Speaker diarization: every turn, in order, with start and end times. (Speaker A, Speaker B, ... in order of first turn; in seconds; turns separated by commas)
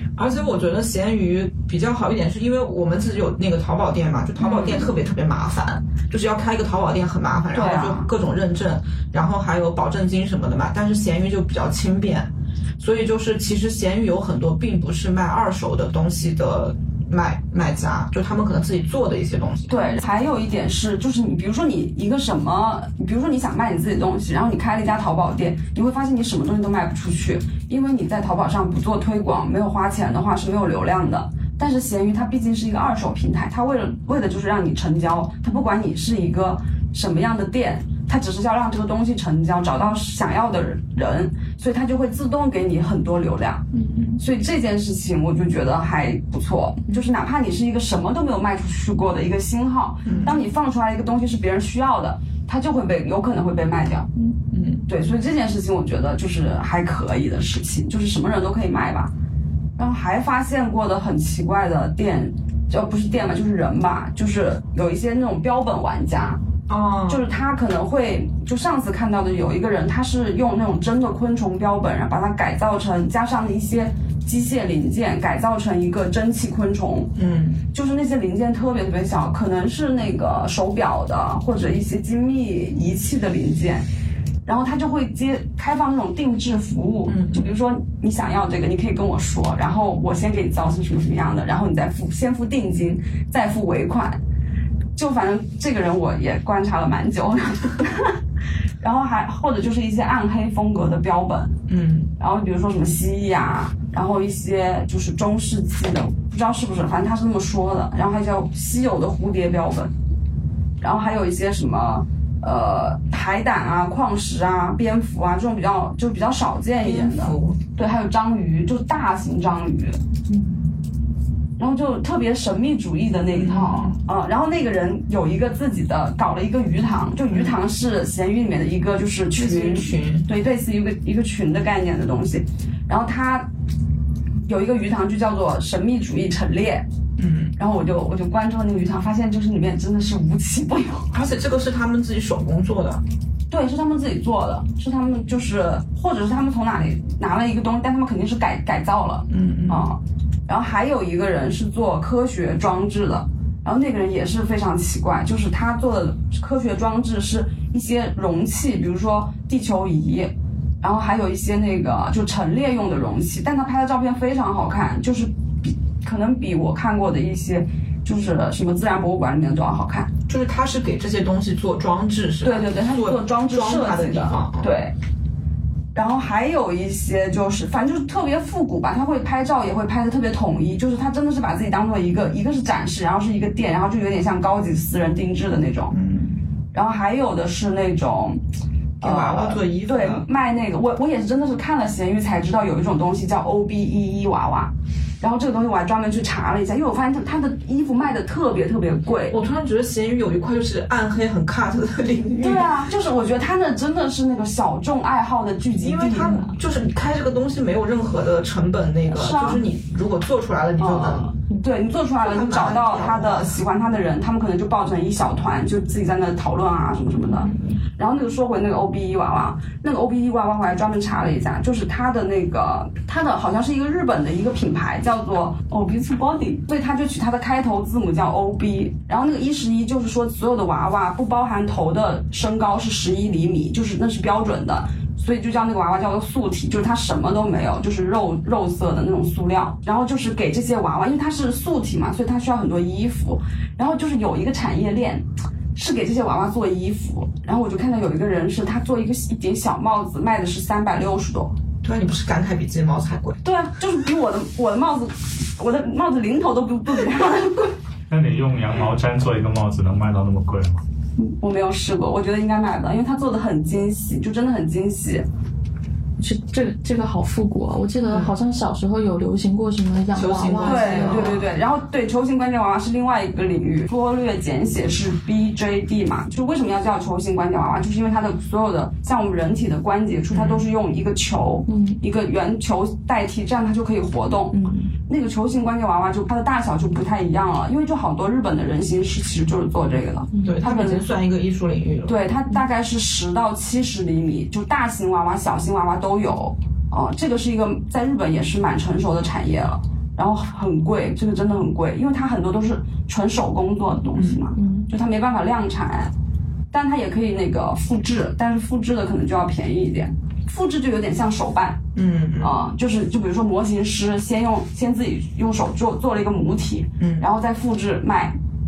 Speaker A: 0.2-19.9, Speaker B: 4.4-4.9, Speaker B: 7.5-8.1, Speaker B: 19.7-43.6, Speaker C: 43.7-44.2, Speaker B: 44.2-54.1, Speaker A: 50.0-50.4, Speaker A: 54.5-54.9, Speaker B: 54.9-59.1, Speaker B: 59.8-66.4, Speaker A: 66.7-67.2, Speaker B: 67.1-77.1, Speaker A: 77.2-77.6, Speaker B: 77.7-83.9, Speaker B: 84.5-94.2, Speaker A: 87.1-87.5, Speaker B: 95.0-98.2, Speaker B: 98.8-101.6, Speaker A: 101.7-102.1, Speaker B: 102.2-109.9, Speaker B: 110.8-120.0, Speaker A: 116.8-117.6, Speaker A: 120.3-120.6, Speaker B: 121.6-133.5, Speaker A: 123.3-124.0, Speaker A: 127.3-127.6, Speaker A: 129.4-130.3, Speaker B: 134.5-136.8, Speaker A: 137.2-137.6, Speaker B: 137.6-141.1, Speaker A: 141.1-143.0, Speaker B: 143.5-170.1, Speaker A: 149.3-149.8, Speaker A: 170.3-174.7, Speaker B: 172.4-174.9, Speaker B: 175.9-185.9, Speaker A: 185.9-186.4, Speaker B: 186.7-188.4, Speaker A: 189.0-190.3, Speaker B: 189.0-199.4, Speaker A: 199.3-202.8, Speaker B: 202.4-206.5, Speaker A: 205.8-211.3, Speaker B: 209.1-209.6, Speaker B: 210.8-251.5, Speaker A: 212.2-213.6, Speaker C: 217.2-217.6, Speaker A: 251.8-253.4, Speaker B: 253.4-257.7, Speaker D: 258.1-260.8, Speaker B: 261.2-265.3, Speaker C: 266.2-271.5, Speaker A: 268.0-268.3, Speaker A: 270.1-271.5, Speaker B: 270.6-291.1, Speaker A: 280.3-280.7, Speaker C: 281.7-282.0, Speaker C: 284.5-284.9, Speaker C: 290.3-290.6, Speaker A: 290.4-292.2, Speaker B: 292.1-306.1, Speaker A: 304.1-304.4, Speaker C: 304.5-304.9, Speaker B: 306.7-311.8, Speaker A: 311.9-312.6, Speaker B: 312.4-318.4, Speaker A: 317.0-317.3